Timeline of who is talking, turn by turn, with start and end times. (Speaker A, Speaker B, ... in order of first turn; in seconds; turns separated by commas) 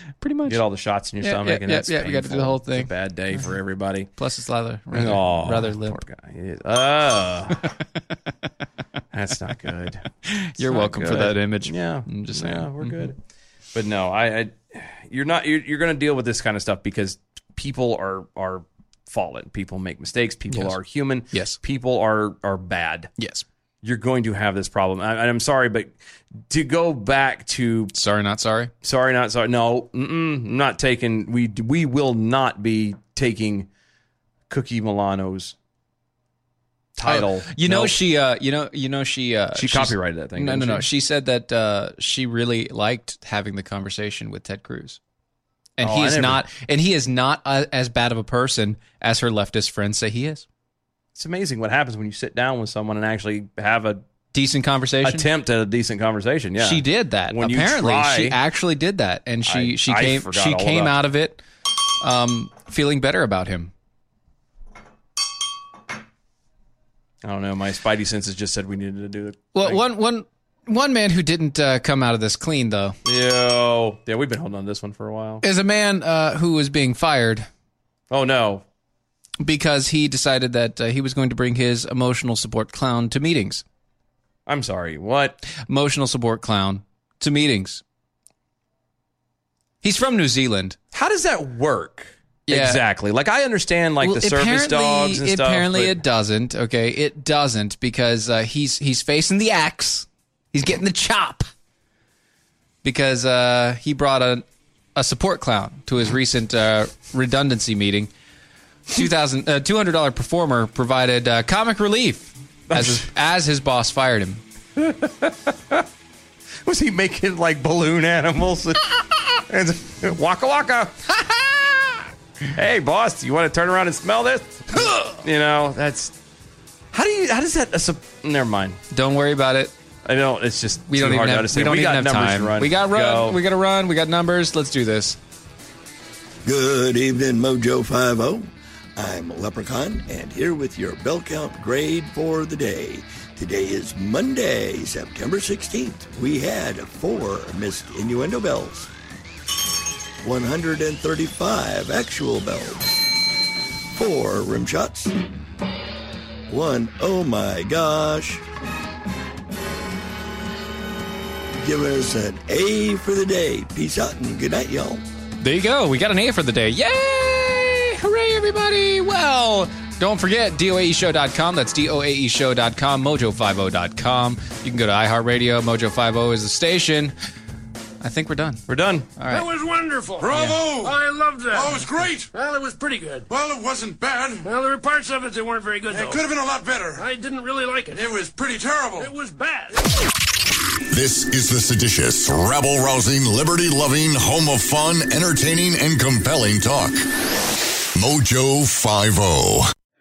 Speaker A: 0.2-0.6, Speaker B: 0.5-4.1, Speaker A: 1.2-3.5, Speaker A: 4.2-6.0, Speaker B: 4.9-7.7, Speaker B: 9.1-10.1, Speaker A: 10.2-13.1, Speaker B: 10.6-13.2, Speaker B: 13.7-23.1, Speaker A: 20.5-20.8, Speaker A: 21.3-21.6, Speaker A: 23.2-23.4, Speaker B: 23.8-25.9, Speaker B: 26.5-27.9, Speaker A: 27.9-28.7, Speaker B: 28.8-33.7, Speaker B: 34.5-35.5, Speaker B: 37.0-38.0, Speaker A: 37.0-45.0, Speaker B: 39.6-40.9, Speaker A: 45.8-50.5, Speaker B: 45.8-46.4, Speaker B: 51.1-54.0, Speaker A: 54.3-55.3, Speaker B: 55.0-58.4, Speaker A: 56.6-61.4, Speaker B: 59.5-61.0, Speaker A: 62.0-63.7, Speaker B: 67.2-69.8, Speaker A: 69.5-73.0, Speaker B: 73.0-75.4, Speaker A: 75.4-77.5, Speaker B: 78.1-78.7, Speaker A: 79.4-83.6, Speaker B: 84.5-85.4, Speaker A: 85.5-87.8, Speaker A: 89.8-90.8, Speaker B: 90.9-96.0, Speaker A: 92.5-92.8, Speaker A: 94.0-101.5, Speaker A: 102.8-104.5, Speaker A: 105.0-108.1, Speaker A: 108.9-114.4, Speaker B: 112.7-113.0, Speaker B: 114.8-115.8, Speaker B: 116.7-121.0, Speaker B: 122.5-126.2, Speaker A: 124.8-125.2, Speaker B: 126.9-128.8, Speaker A: 128.9-129.7, Speaker B: 130.1-133.4, Speaker A: 130.9-135.2, Speaker C: 136.4-148.9, Speaker C: 150.2-152.9, Speaker C: 153.9-155.2, Speaker C: 156.5-158.4, Speaker C: 161.6-165.0, Speaker A: 165.4-177.1, Speaker A: 178.0-178.7, Speaker B: 178.7-179.1, Speaker A: 179.2-179.5, Speaker D: 179.3-183.2, Speaker E: 180.2-180.9, Speaker A: 180.3-180.6, Speaker E: 181.6-182.2, Speaker E: 183.3-184.4, Speaker D: 184.4-186.3, Speaker E: 185.9-187.0, Speaker D: 186.9-188.4, Speaker E: 188.0-189.1, Speaker D: 188.9-189.7, Speaker F: 190.9-197.1, Speaker F: 198.0-199.7